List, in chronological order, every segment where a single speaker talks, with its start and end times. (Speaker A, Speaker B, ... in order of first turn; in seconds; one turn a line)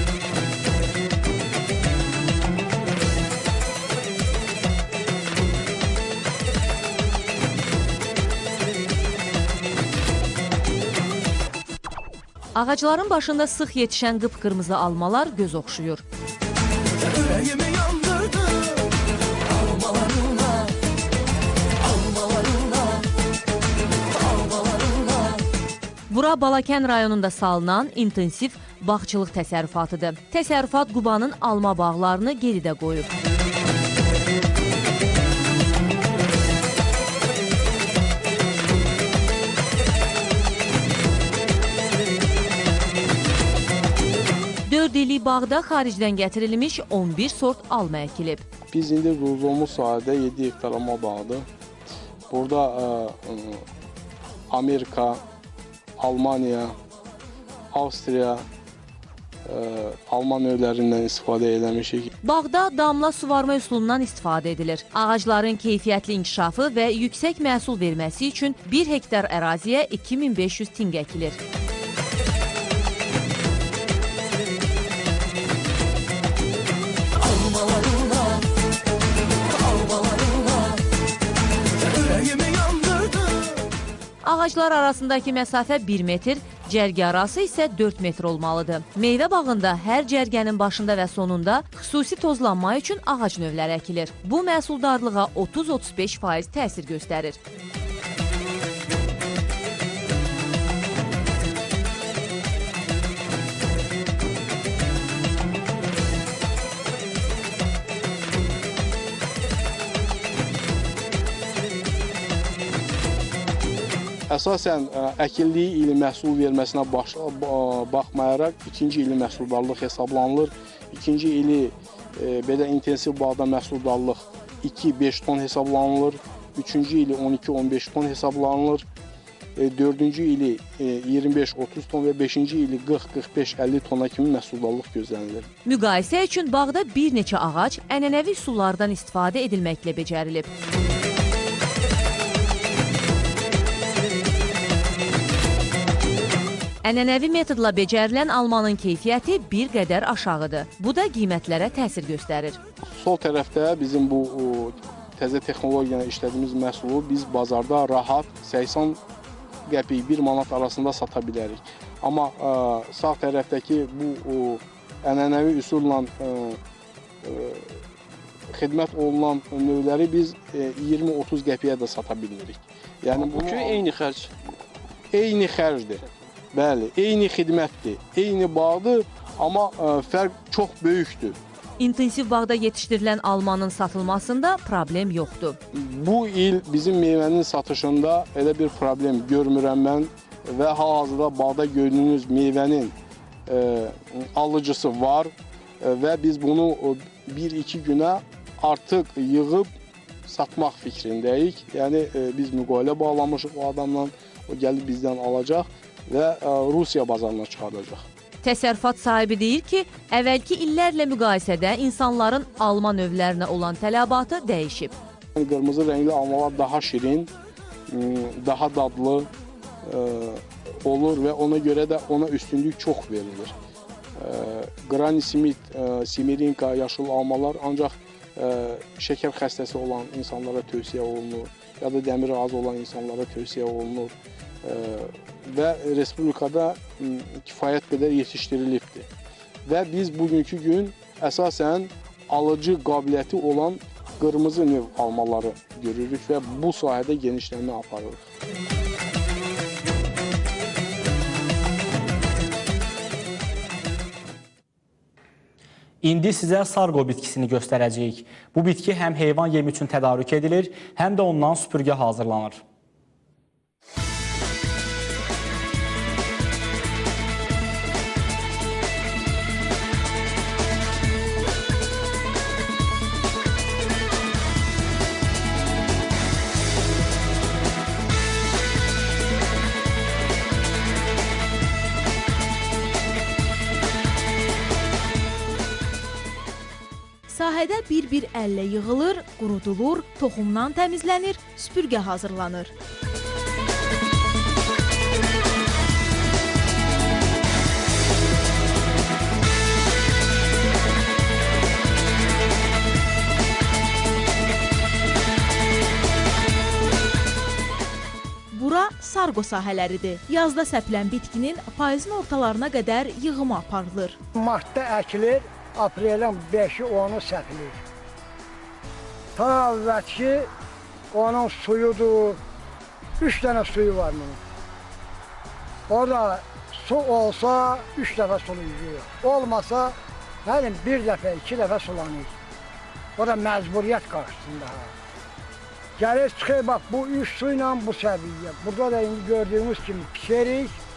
Speaker A: 12.6-16.0
Speaker A: 17.6-18.6
Speaker A: 26.1-33.1
Speaker A: 44.7-48.4
Speaker B: 48.7-51.5
Speaker B: 52.3-53.6
Speaker B: 54.5-55.2
Speaker B: 56.0-56.8
Speaker B: 57.7-58.4
Speaker B: 59.5-62.1
Speaker A: 62.2-71.4
Speaker A: 84.2-97.4
Speaker B: 114.3-128.8
Speaker B: 129.6-135.5
Speaker A: 135.7-140.5
Speaker A: 146.8-152.6
Speaker B: 152.9-159.0
Speaker B: 159.7-166.6
Speaker B: 167.2-167.8
Speaker B: 168.5-174.3
Speaker B: 175.1-176.0
Speaker B: 176.6-181.4
Speaker A: 181.8-185.6
Speaker B: 185.8-192.9
Speaker B: 193.5-199.7
Speaker B: 200.3-208.1
Speaker A: 208.4-214.9
Speaker B: 215.4-217.3
Speaker B: 217.9-219.3
Speaker B: 219.9-223.6
Speaker B: 224.2-234.1
Speaker B: 234.7-239.1
Speaker B: 239.7-248.3
Speaker C: 256.0-262.6
Speaker D: 287.3-292.7
Speaker D: 308.5-314.2
Speaker E: 314.4-317.8
Speaker E: 319.4-320.5
Speaker E: 321.1-322.4
Speaker E: 323.2-324.4
Speaker E: 325.9-332.4
Speaker E: 333.2-334.9
Speaker E: 336.0-340.8